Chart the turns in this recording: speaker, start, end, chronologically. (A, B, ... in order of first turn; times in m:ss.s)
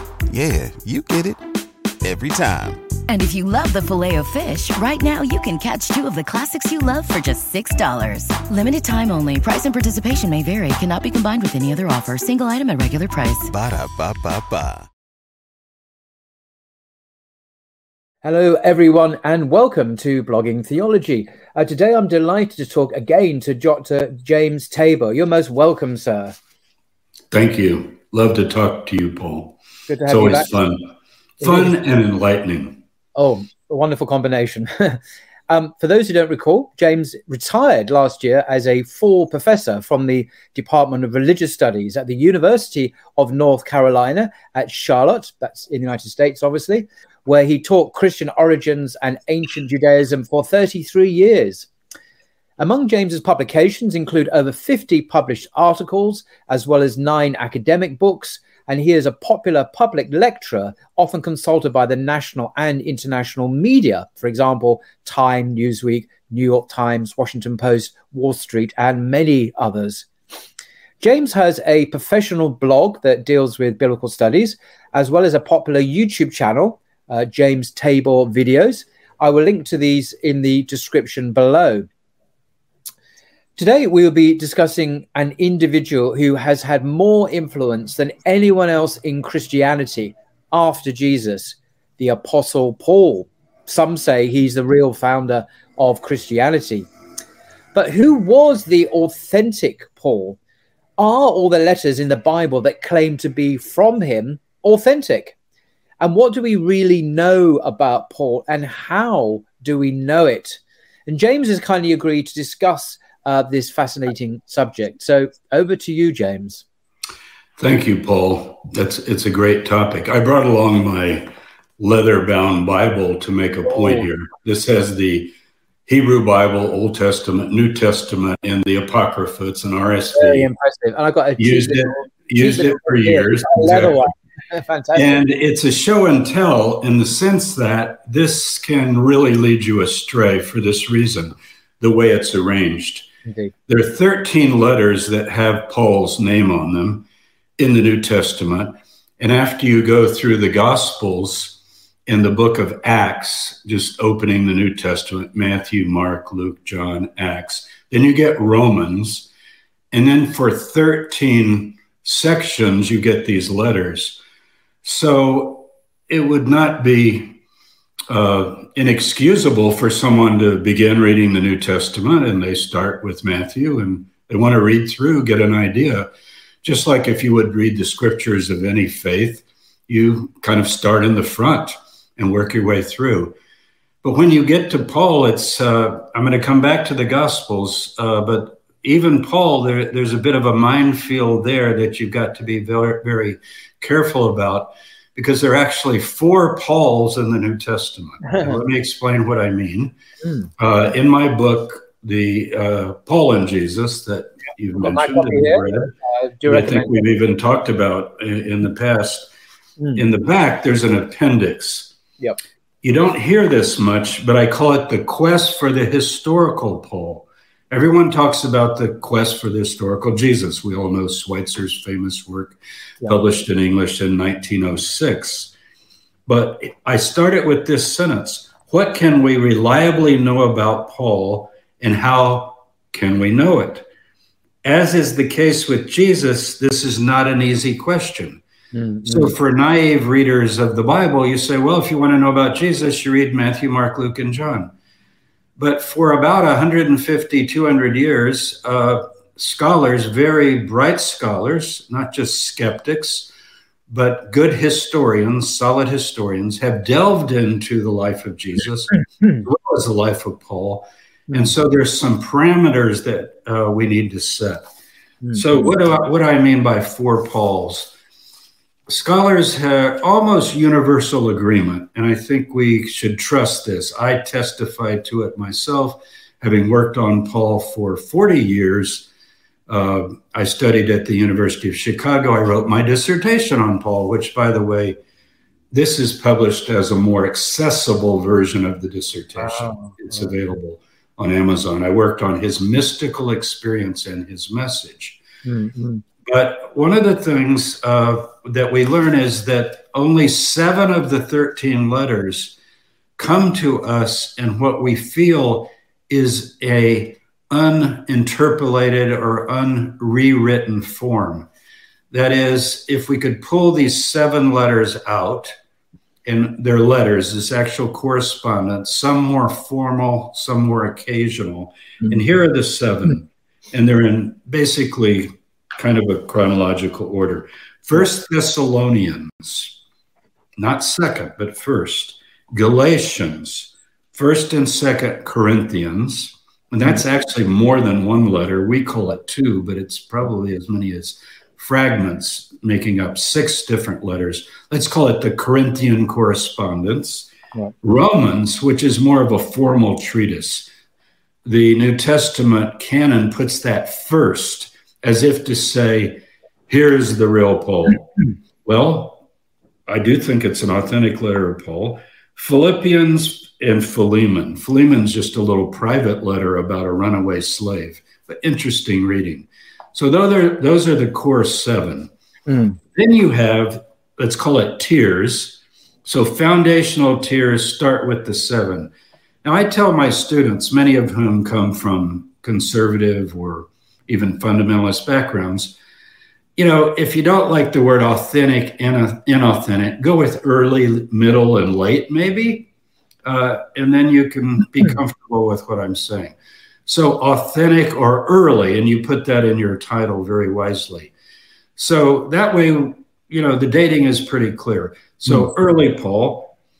0:00.3-0:01.4 A
0:02.0-0:02.8 A
0:03.1-0:13.5 B
0:13.5-0:14.9 A
0:18.2-0:26.3 C
0:27.3-0:32.8 D
0:29.9-0:30.6 C
0:31.4-0:31.8 C
0:33.2-0:51.7 C
0:52.6-1:10.1 C
1:11.0-1:21.9 C
1:23.6-1:36.9 C
1:37.7-1:40.4 C
1:41.0-1:45.4 C
1:46.0-1:56.6 C
1:57.6-2:05.3 D
2:03.7-2:04.0 C
2:05.9-2:10.5 D
2:10.1-2:15.2 C
2:11.4-2:14.0 D
2:14.9-2:23.1 D
2:23.2-2:23.5 C
2:23.7-2:27.0 D
2:27.6-2:39.3 D
2:39.9-2:44.2 D
2:44.8-2:47.4 D
2:48.1-2:56.1 D
2:56.6-3:03.4 D
3:04.0-3:19.9 D
3:20.2-3:20.5 C
3:20.6-3:25.9 D
3:24.8-3:27.0 C
3:26.4-3:29.3 D
3:30.0-3:31.9 D
3:32.8-3:45.5 D
3:46.3-3:53.9 D
3:54.6-3:58.4 D
3:58.7-3:59.3 C
3:59.0-4:04.7 D
4:05.6-4:13.3 D
4:13.9-4:24.6 D
4:21.3-4:21.5 C
4:25.2-4:25.7 C
4:25.3-4:27.9 D
4:28.9-4:39.1 D
4:39.7-4:45.0 D
4:45.7-4:55.2 D
4:49.4-4:50.2 C
4:55.4-4:56.0 C
4:56.2-5:02.6 D
5:03.2-5:11.5 D
5:12.1-5:15.5 D
5:16.2-5:29.8 D
5:30.6-5:47.3 D
5:47.8-5:50.7 D
5:51.4-5:58.1 D
5:58.6-5:59.2 D
5:59.9-6:12.1 D
6:12.5-6:12.8 C
6:12.9-6:18.9 D
6:19.4-6:25.8 D
6:26.6-6:32.7 D
6:33.2-6:36.3 D
6:36.8-6:41.1 D
6:41.8-6:46.5 D